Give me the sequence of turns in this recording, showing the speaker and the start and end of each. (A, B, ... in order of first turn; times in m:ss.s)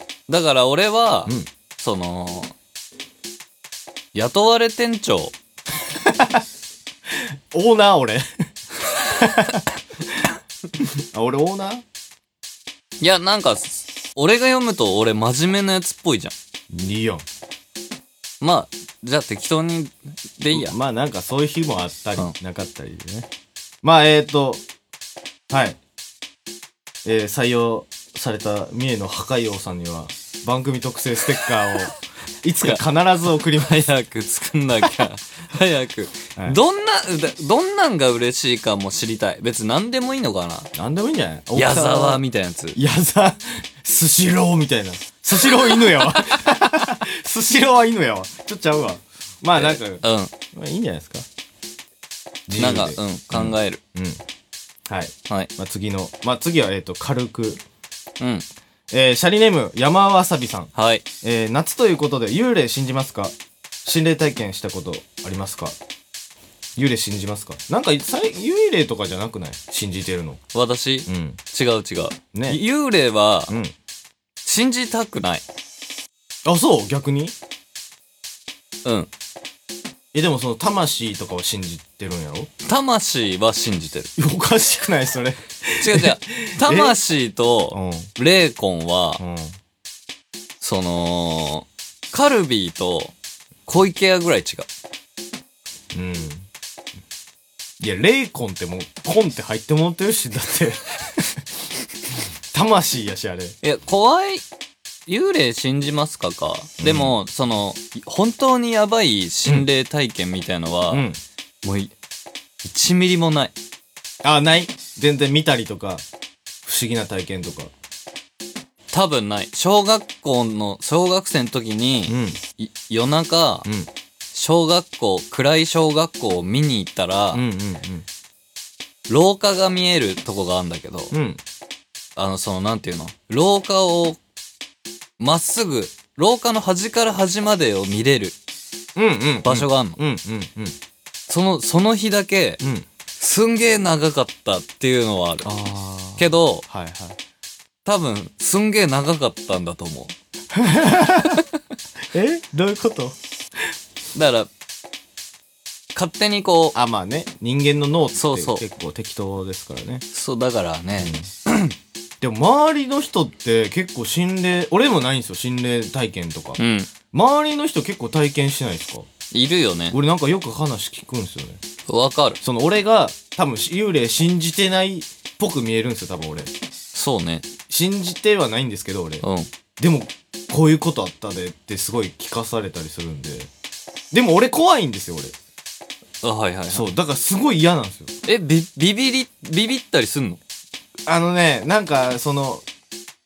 0:00.3-0:02.5 A
0:04.1-0:05.3 A
0:05.9-0:06.4 B
0:07.1-0:08.2 B
0:08.9-0:11.8 B
0:13.0-0:16.4 A
0:16.7-0:17.2 B
0:18.4-0:20.8 A
0:20.5-0:23.3 B
0:23.8-0:24.6 B
0:25.5-0:25.8 B
0:27.0-0:33.9 B
0:33.6-0:40.7 A
0:40.8-0:42.2 B
0:41.6-0:42.8 A
0:42.8-0:51.3 B
0:49.6-0:50.3 A
0:52.5-0:54.2 B
0:52.6-0:53.8 A
0:54.9-0:57.6 B
0:58.2-0:58.5 A
0:58.9-1:05.8 B
1:00.8-1:01.0 A
1:06.8-1:10.4 B
1:10.5-1:13.6 A
1:11.1-1:11.4 B
1:12.3-1:12.6 B
1:13.5-1:13.8 B
1:14.4-1:15.4 A
1:16.4-1:17.4 B
1:18.8-1:19.1 A
1:20.1-1:22.5 B
1:22.6-1:24.1 A
1:24.2-1:27.0 B
1:25.8-1:29.2 A
1:27.7-1:28.1 B
1:29.2-1:29.6 B
1:30.6-1:33.1 A
1:33.6-1:34.7 A
1:35.9-1:36.5 B
1:37.8-1:41.4 B
1:42.5-1:43.6 B
1:43.6-1:44.4 A
1:45.1-1:51.0 A
1:46.8-1:47.1 B
1:50.9-1:51.2 B
1:51.6-1:51.9 A
1:52.6-1:53.6 A
1:54.2-1:56.0 B
1:56.6-1:57.7 B
1:58.9-2:03.7 A
2:02.1-2:02.4 B
2:03.6-2:03.9 B
2:04.3-2:07.4 A
2:07.3-2:08.1 B
2:09.1-2:11.1 A
2:11.1-2:11.4 B
2:12.2-2:14.2 A
2:15.2-2:18.4 A
2:19.0-2:20.8 B
2:19.4-2:20.0 A
2:21.3-2:22.6 A
2:22.6-2:22.9 B
2:23.2-2:25.5 A
2:25.4-2:27.2 B
2:26.2-2:26.6 A
2:27.8-2:30.1 A
2:30.5-2:31.4 B
2:32.1-2:33.2 B
2:34.1-2:34.5 A
2:36.0-2:36.8 A
2:36.7-2:40.0 B
2:38.1-2:38.6 A
2:40.1-2:41.8 A
2:41.0-2:41.3 B
2:42.2-2:46.6 B
2:46.6-2:46.9 A
2:47.1-2:49.1 B
2:49.3-2:50.0 A
2:49.9-2:51.6 B
2:51.9-2:52.4 A
2:52.4-2:56.5 B
2:56.9-2:57.5 A
2:57.7-2:59.2 B
2:59.2-2:59.5 A
2:59.8-3:03.5 B
3:04.1-3:05.3 B
3:06.2-3:06.9 A
3:06.7-3:08.1 B
3:08.3-3:10.4 A
3:11.1-3:12.6 B